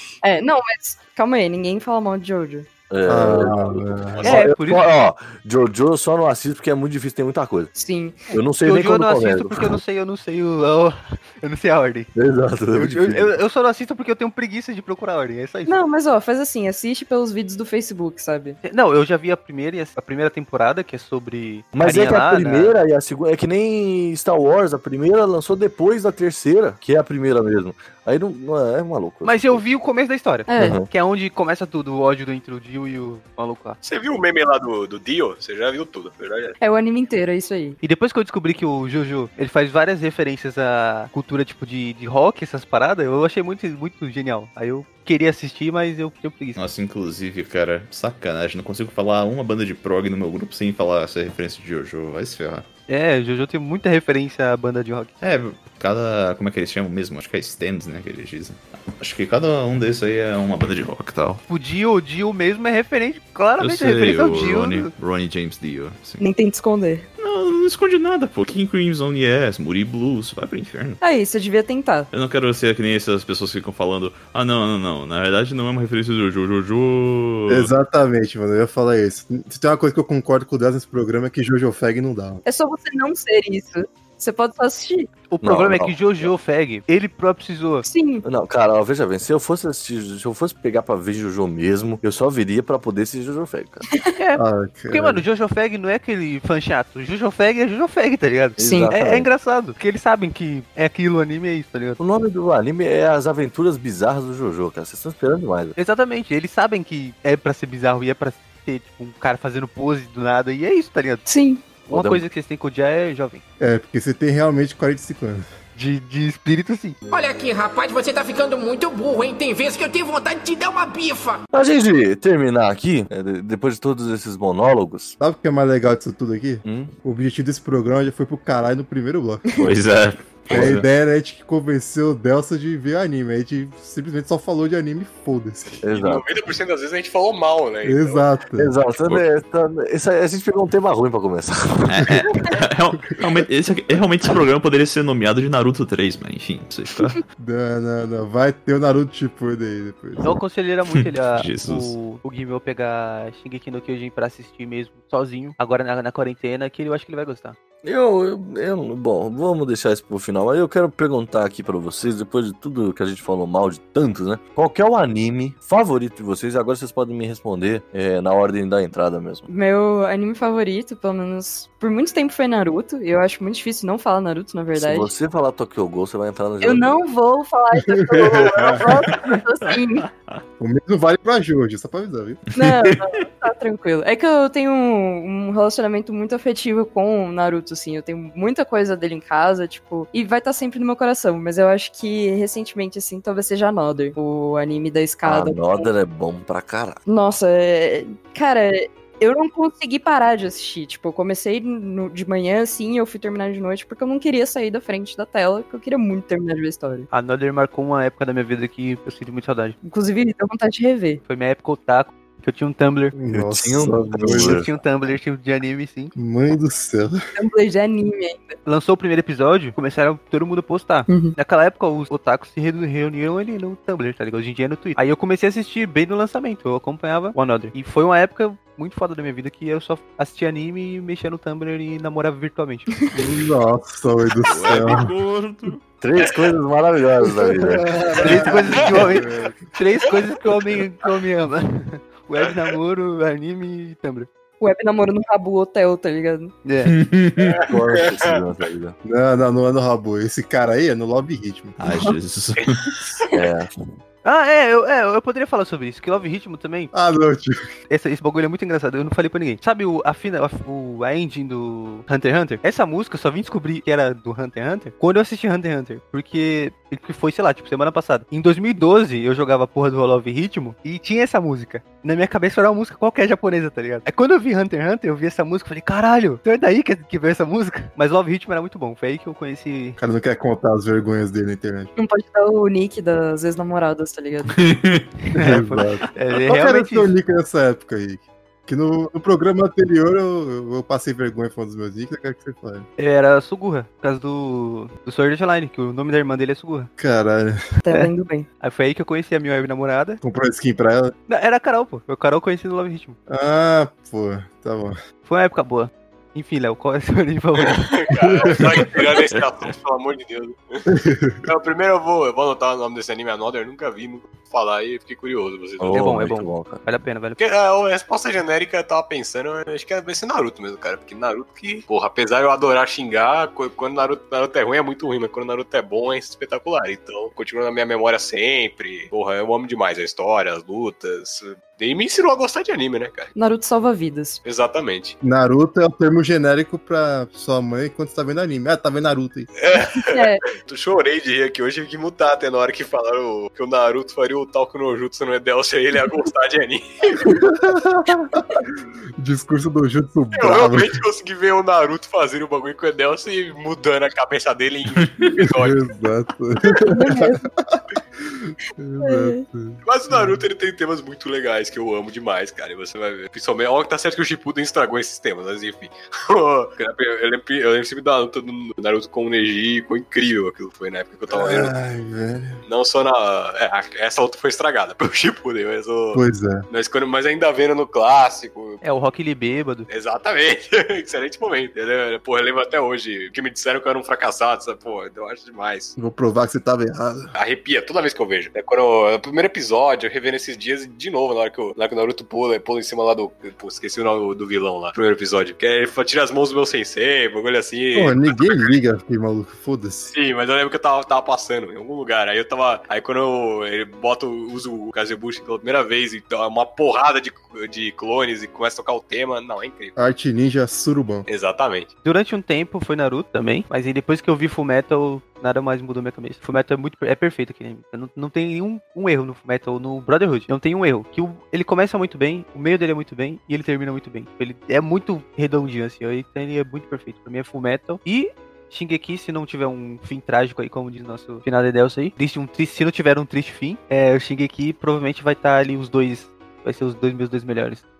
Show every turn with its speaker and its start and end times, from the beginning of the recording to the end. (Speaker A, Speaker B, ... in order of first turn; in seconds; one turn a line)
Speaker A: 0.2-2.7
Speaker B: 2.9-7.7
Speaker C: 3.1-4.3
Speaker D: 4.2-4.9
Speaker A: 7.8-8.3
Speaker B: 8.3-9.7
Speaker D: 8.6-12.1
Speaker B: 12.2-13.3
Speaker D: 12.7-15.8
Speaker A: 15.7-18.6
Speaker D: 18.6-22.8
Speaker B: 21.7-29.6
Speaker D: 29.2-33.8
Speaker A: 30.5-30.8
Speaker B: 30.6-30.9
Speaker E: 33.8-36.5
Speaker A: 36.6-37.8
Speaker D: 37.8-46.6
Speaker F: 46.6-52.7
Speaker D: 52.9-55.1
Speaker F: 55.2-61.4
Speaker D: 61.5-64.9
Speaker F: 63.6-66.2
Speaker A: 66.2-67.1
Speaker F: 67.2-71.0
Speaker A: 71.0-72.1
Speaker F: 72.1-77.7
Speaker C: 77.5-82.4
Speaker A: 82.5-85.1
Speaker D: 85.3-87.9
Speaker B: 85.4-86.3
Speaker A: 87.8-88.2
Speaker B: 88.2-93.8
Speaker D: 94.2-102.0
Speaker C: 94.4-95.2
Speaker B: 98.6-99.3
Speaker A: 98.6-98.9
Speaker B: 102.0-105.8
Speaker D: 105.8-111.2
Speaker A: 111.3-111.7
Speaker D: 111.8-113.4
Speaker B: 111.9-112.2
Speaker C: 113.6-115.5
Speaker D: 115.8-117.0
Speaker G: 117.1-121.4
Speaker B: 121.5-125.2
Speaker C: 125.2-129.4
Speaker B: 126.6-127.0
Speaker F: 129.6-130.8
Speaker C: 130.5-135.8
Speaker B: 130.5-130.8
Speaker B: 135.8-136.3
Speaker E: 135.9-138.2
Speaker C: 137.8-138.7
Speaker B: 138.6-142.1
Speaker F: 141.9-147.2
Speaker C: 147.4-150.4
Speaker D: 150.2-157.6
Speaker F: 150.9-151.9
Speaker B: 157.8-169.5
Speaker A: 169.5-175.1
Speaker B: 174.8-177.0
Speaker A: 176.6-180.1
Speaker C: 177.9-178.8
Speaker C: 180.6-182.5
Speaker A: 182.6-195.9
Speaker B: 195.2-197.0
Speaker A: 197.1-207.1
Speaker D: 207.1-209.8
Speaker A: 209.8-211.2
Speaker D: 211.3-213.1
Speaker C: 213.2-214.7
Speaker B: 213.3-214.7
Speaker D: 214.4-216.2
Speaker C: 216.2-217.2
Speaker A: 217.4-218.6
Speaker D: 218.7-232.9
Speaker A: 221.1-221.3
Speaker C: 233.1-235.1
Speaker F: 234.4-235.8
Speaker B: 236.0-238.6
Speaker C: 237.6-239.6
Speaker D: 238.2-244.3
Speaker A: 244.6-246.6
Speaker D: 246.7-246.9
Speaker F: 246.9-247.6
Speaker E: 247.4-248.4
Speaker B: 247.6-249.0
Speaker C: 249.1-252.1
Speaker F: 251.8-252.9
Speaker B: 253.3-253.7
Speaker D: 254.2-256.9
Speaker C: 256.9-257.6
Speaker D: 257.9-280.0
Speaker C: 280.0-281.9
Speaker A: 282.0-284.6
Speaker F: 284.6-285.1
Speaker D: 285.2-287.1
Speaker C: 285.4-292.9
Speaker D: 293.0-296.9
Speaker C: 297.0-297.8
Speaker A: 297.8-298.5
Speaker D: 298.6-300.2
Speaker C: 300.2-301.1
Speaker D: 301.3-303.2
Speaker C: 303.3-305.0
Speaker D: 305.2-307.9
Speaker E: 307.7-310.9
Speaker C: 308.2-309.0
Speaker C: 310.9-311.4
Speaker E: 311.4-316.0
Speaker B: 315.8-316.8
Speaker D: 315.9-317.4
Speaker E: 317.4-333.3
Speaker A: 333.4-334.4
Speaker E: 334.4-335.2
Speaker C: 335.2-339.5
Speaker E: 339.6-347.3
Speaker A: 339.9-340.4
Speaker C: 347.2-351.0
Speaker E: 350.3-355.9
Speaker C: 355.4-360.4
Speaker A: 356.9-357.5
Speaker A: 359.0-359.4
Speaker E: 359.8-371.7
Speaker C: 371.3-372.6
Speaker E: 372.7-378.8
Speaker C: 376.1-376.7
Speaker D: 378.8-379.9
Speaker E: 379.9-385.9
Speaker C: 386.0-387.3
Speaker E: 387.4-398.7
Speaker C: 397.9-400.1
Speaker E: 400.1-410.0
Speaker C: 410.0-411.3
Speaker E: 411.3-411.9
Speaker D: 412.0-437.8